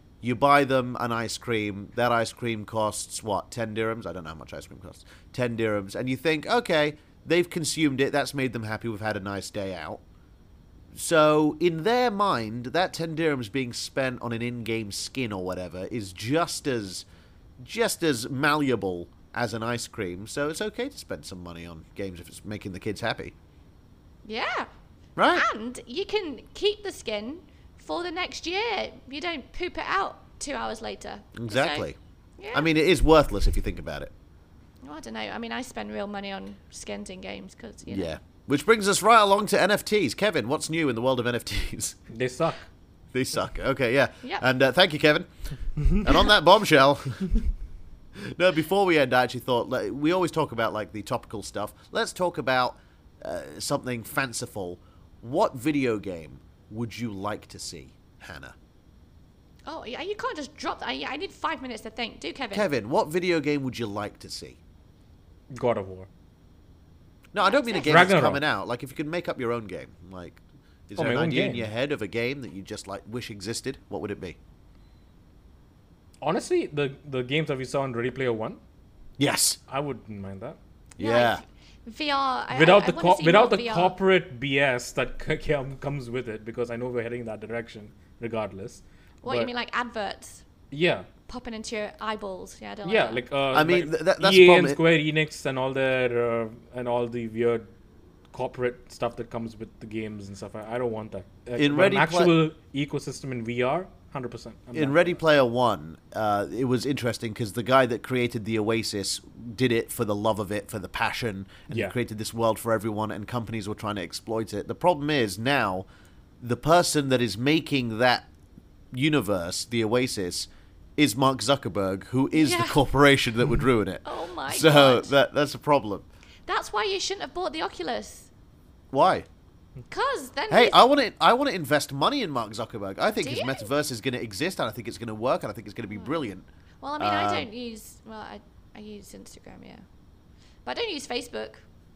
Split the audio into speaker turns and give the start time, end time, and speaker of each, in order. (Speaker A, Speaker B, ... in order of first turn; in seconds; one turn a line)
Speaker A: 0.2-10.0
Speaker A: 10.9-17.1
Speaker A: 17.6-23.3
Speaker B: 24.2-24.7
Speaker A: 25.2-25.4
Speaker B: 25.3-31.9
Speaker A: 31.4-32.0
Speaker B: 32.4-32.7
Speaker A: 32.5-34.1
Speaker B: 34.8-38.2
Speaker A: 37.9-42.0
Speaker C: 42.1-42.7
Speaker A: 43.1-45.3
Speaker A: 45.8-47.4
Speaker A: 48.2-58.6
Speaker B: 59.7-62.7
Speaker A: 62.5-64.6
Speaker C: 65.5-66.1
Speaker A: 67.3-74.4
Speaker B: 67.4-68.0
Speaker C: 67.8-68.4
Speaker C: 71.0-71.7
Speaker C: 76.2-78.6
Speaker A: 79.2-79.6
Speaker C: 79.7-80.6
Speaker A: 81.0-81.4
Speaker B: 81.0-84.0
Speaker C: 82.5-89.5
Speaker B: 89.2-90.5
Speaker C: 90.7-91.1
Speaker B: 91.3-93.2
Speaker C: 92.8-97.7
Speaker A: 93.5-94.8
Speaker C: 98.3-105.0
Speaker A: 101.6-102.3
Speaker A: 104.8-115.8
Speaker C: 111.7-112.0
Speaker A: 116.4-118.3
Speaker A: 118.9-126.1
Speaker B: 122.3-122.8
Speaker B: 124.0-125.1
Speaker B: 126.5-128.3
Speaker A: 128.9-129.3
Speaker B: 129.9-130.8
Speaker A: 130.5-136.5
Speaker B: 133.2-133.7
Speaker B: 135.8-136.2
Speaker B: 136.8-139.8
Speaker A: 137.0-137.5
Speaker B: 140.7-141.6